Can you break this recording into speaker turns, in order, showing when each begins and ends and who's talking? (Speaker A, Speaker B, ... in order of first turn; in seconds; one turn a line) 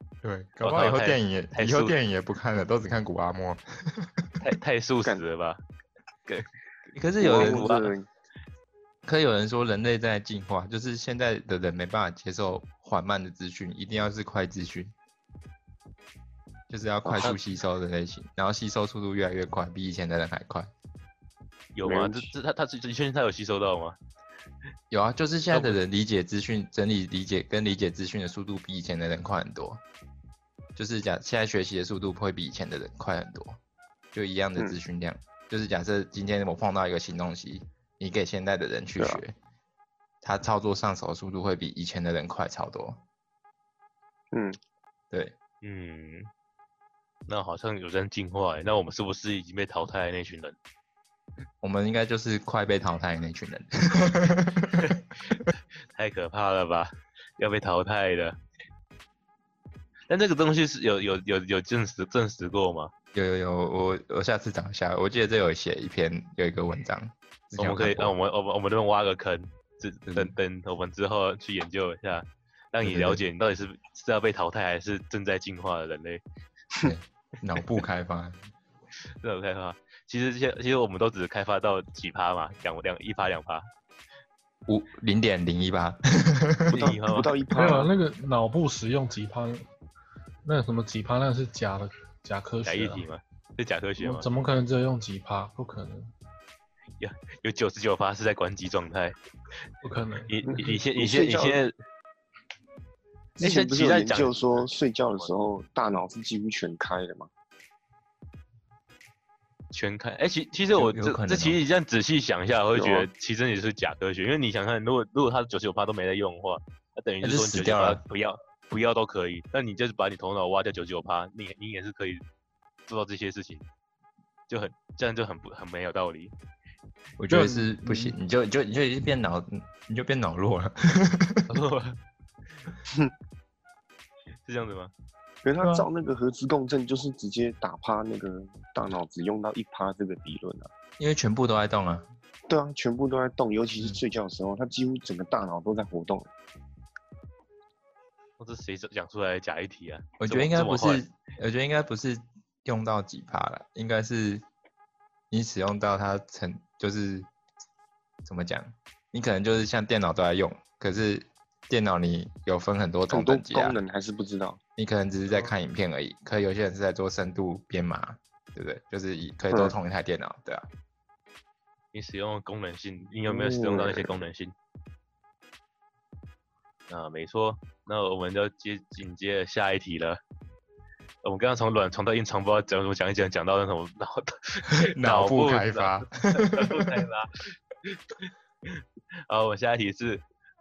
Speaker A: 0.2-4.3
Speaker B: 0.6-1.9
Speaker B: 4.4-5.6
Speaker A: 7.0-7.7
Speaker B: 7.2-8.0
Speaker C: 7.2-8.1
Speaker A: 9.1-14.9
Speaker A: 16.7-20.7
Speaker C: 17.1-17.3
Speaker B: 21.8-24.0
Speaker C: 21.8-22.3
Speaker A: 24.9-29.8
Speaker B: 25.5-25.8
Speaker A: 30.8-33.6
Speaker A: 34.1-39.4
Speaker A: 40.2-43.0
Speaker C: 44.3-44.6
Speaker B: 45.6-46.3
Speaker B: 47.3-50.6
Speaker A: 51.6-54.9
Speaker B: 54.8-55.4
Speaker B: 55.9-58.4
Speaker B: 60.1-62.9
Speaker A: 63.1-68.2
Speaker B: 67.6-76.2
Speaker A: 70.1-70.3
Speaker A: 72.8-73.2
Speaker A: 76.8-78.4
Speaker B: 79.2-83.7
Speaker A: 84.7-86.8
Speaker B: 86.7-87.3
Speaker C: 86.7-87.9
Speaker D: 87.5-89.6
Speaker D: 90.5-93.0
Speaker B: 92.7-94.3
Speaker D: 94.0-96.1
Speaker B: 97.0-99.2
Speaker D: 99.8-100.5
Speaker B: 100.3-101.7
Speaker C: 100.5-101.6
Speaker B: 103.4-105.3
Speaker C: 103.4-107.3
Speaker B: 109.7-122.2
Speaker A: 110.8-111.6
Speaker C: 112.7-113.1
Speaker A: 117.2-118.0
Speaker B: 122.9-123.7
Speaker B: 124.5-126.3
Speaker A: 127.2-131.5
Speaker D: 127.3-128.2
Speaker B: 131.5-132.0
Speaker B: 134.4-134.9
Speaker C: 135.4-140.7
Speaker A: 135.6-135.9
Speaker A: 141.0-142.1
Speaker C: 142.5-146.3
Speaker B: 148.4-151.0
Speaker A: 150.2-154.4
Speaker A: 155.3-157.3
Speaker A: 158.2-163.8
Speaker C: 163.1-164.6
Speaker A: 164.8-170.7
Speaker B: 165.3-165.5
Speaker B: 171.9-174.5
Speaker C: 173.3-174.2
Speaker B: 176.9-180.2
Speaker B: 181.2-190.2
Speaker A: 184.7-187.0